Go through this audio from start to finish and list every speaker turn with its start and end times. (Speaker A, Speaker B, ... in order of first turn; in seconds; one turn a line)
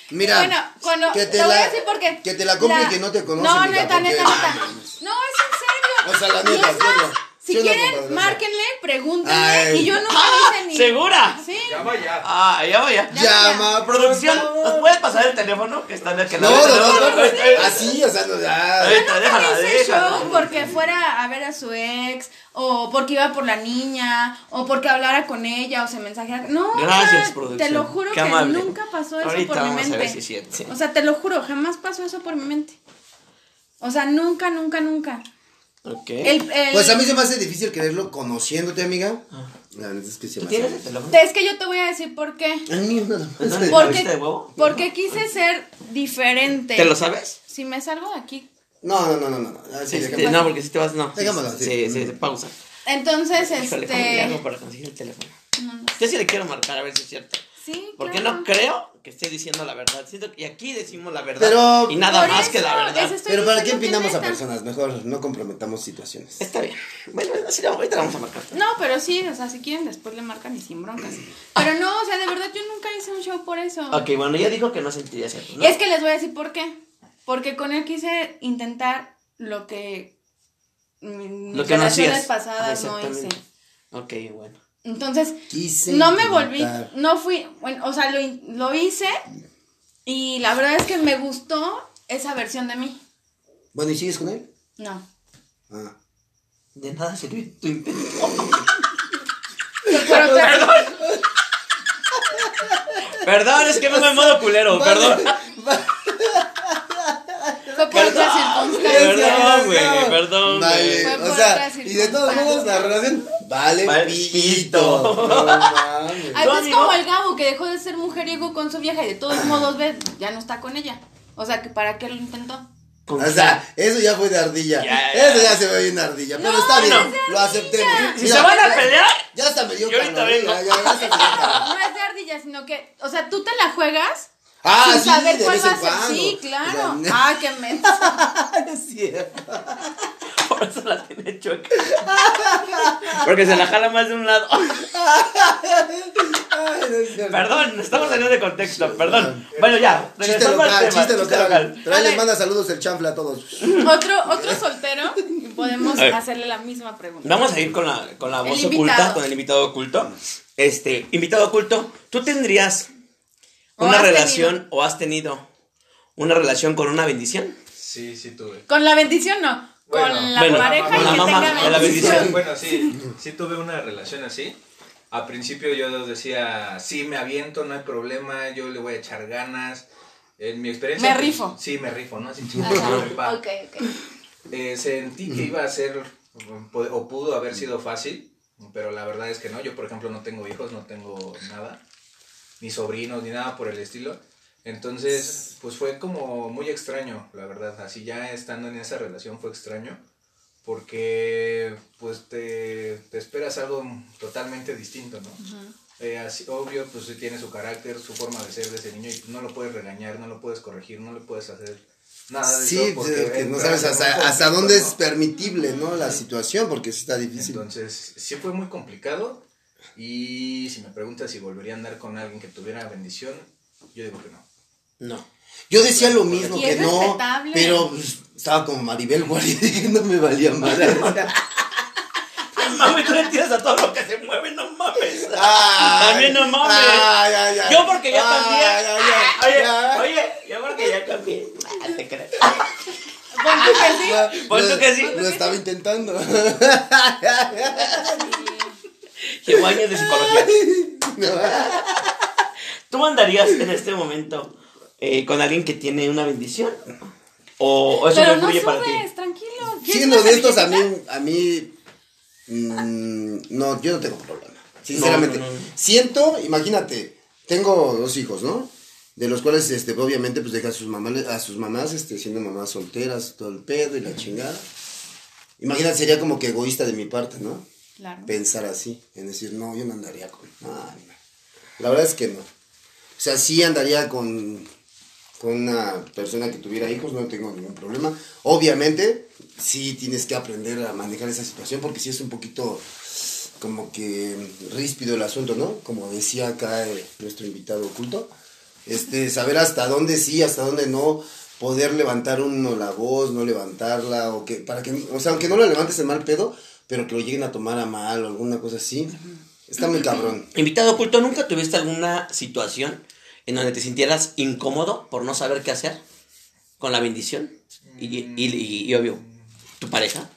Speaker A: 0.1-0.6
Speaker B: 0.2-11.9
Speaker A: 1.1-4.9
Speaker A: 6.0-8.4
Speaker A: 9.2-10.0
Speaker C: 10.1-11.4
Speaker D: 11.6-12.3
Speaker C: 12.2-13.1
Speaker B: 13.1-13.7
Speaker A: 13.1-15.0
Speaker C: 13.8-17.9
Speaker A: 16.4-19.0
Speaker B: 16.5-17.8
Speaker C: 18.8-20.7
Speaker B: 18.9-32.8
Speaker A: 20.2-20.7
Speaker C: 26.7-30.7
Speaker B: 33.8-35.2
Speaker C: 35.8-36.3
Speaker B: 36.2-37.0
Speaker A: 36.7-40.9
Speaker C: 40.4-41.2
Speaker B: 41.1-42.7
Speaker A: 42.7-44.0
Speaker C: 43.4-44.8
Speaker B: 43.7-48.5
Speaker C: 46.7-47.4
Speaker A: 48.8-50.4
Speaker C: 49.9-52.5
Speaker B: 50.1-50.5
Speaker A: 51.1-52.1
Speaker B: 52.9-54.4
Speaker C: 53.4-55.3
Speaker B: 55.5-56.0
Speaker C: 56.0-57.4
Speaker B: 57.6-58.5
Speaker C: 58.0-63.2
Speaker A: 61.4-62.5
Speaker B: 62.0-64.4
Speaker A: 63.3-66.4
Speaker C: 66.4-68.5
Speaker B: 68.5-74.0
Speaker C: 73.9-75.7
Speaker B: 75.6-80.1
Speaker B: 81.0-83.4
Speaker C: 81.5-83.3
Speaker C: 83.9-84.6
Speaker B: 84.8-89.2
Speaker A: 85.5-86.9
Speaker B: 90.0-93.0
Speaker A: 93.7-94.5
Speaker B: 94.8-95.0
Speaker A: 95.7-95.9
Speaker C: 96.8-98.7
Speaker A: 99.9-101.2
Speaker B: 99.9-100.8
Speaker C: 99.9-101.0
Speaker A: 102.1-103.2
Speaker C: 103.1-105.3
Speaker A: 103.7-116.5
Speaker B: 107.7-109.6
Speaker C: 107.9-111.2
Speaker B: 111.0-113.0
Speaker C: 113.8-115.8
Speaker B: 116.3-122.7
Speaker C: 116.3-117.0
Speaker A: 119.3-119.7
Speaker C: 123.1-123.6
Speaker A: 123.2-131.7
Speaker C: 124.8-125.6
Speaker B: 126.3-128.9
Speaker C: 126.7-127.1
Speaker C: 127.9-129.3
Speaker C: 129.8-131.6
Speaker B: 131.0-138.1
Speaker A: 134.6-137.3
Speaker A: 137.8-139.9
Speaker C: 140.3-142.0
Speaker A: 141.9-143.3
Speaker C: 143.1-144.9
Speaker A: 144.9-149.4
Speaker C: 147.2-151.8
Speaker D: 149.5-150.1
Speaker A: 150.1-154.6
Speaker B: 151.9-152.2
Speaker C: 153.6-153.9
Speaker B: 153.8-157.6
Speaker C: 157.2-162.9
Speaker B: 158.4-159.2
Speaker B: 163.8-164.6
Speaker C: 163.8-165.4
Speaker C: 166.2-167.6
Speaker D: 167.8-168.6
Speaker B: 168.7-172.9
Speaker D: 169.9-174.6
Speaker C: 170.3-172.3
Speaker A: 171.6-172.4
Speaker D: 175.1-179.8
Speaker D: 180.4-183.4
Speaker B: 181.0-181.5
Speaker B: 182.6-184.0
Speaker D: 184.5-191.8
Speaker D: 192.6-200.0
Speaker D: 200.6-205.4
Speaker B: 205.4-205.7
Speaker D: 206.0-215.0
Speaker A: 212.5-217.6
Speaker B: 215.4-215.8
Speaker D: 215.9-216.2
Speaker D: 217.4-219.4
Speaker D: 219.9-224.4
Speaker C: 225.0-225.2
Speaker A: 225.7-231.3
Speaker D: 225.9-226.9
Speaker B: 226.5-227.8
Speaker C: 231.0-231.3
Speaker C: 232.5-237.1
Speaker B: 232.6-233.2
Speaker A: 235.1-240.1
Speaker C: 237.6-242.8
Speaker B: 243.3-244.4
Speaker C: 243.4-245.2
Speaker A: 243.6-248.4
Speaker B: 245.0-245.6
Speaker B: 247.7-248.8
Speaker C: 249.2-250.6
Speaker A: 249.5-252.2
Speaker C: 251.4-251.8
Speaker C: 252.9-259.0
Speaker B: 258.1-260.9
Speaker A: 259.8-261.7
Speaker A: 262.5-274.6
Speaker C: 264.9-265.7
Speaker A: 275.6-277.6
Speaker B: 278.0-278.3
Speaker A: 278.2-281.1
Speaker A: 281.8-282.5
Speaker A: 283.2-284.7
Speaker A: 285.4-298.3
Speaker A: 298.9-310.5
Speaker B: 309.9-310.1
Speaker C: 310.5-316.0
Speaker C: 316.8-319.2
Speaker D: 317.8-319.5
Speaker C: 319.8-320.3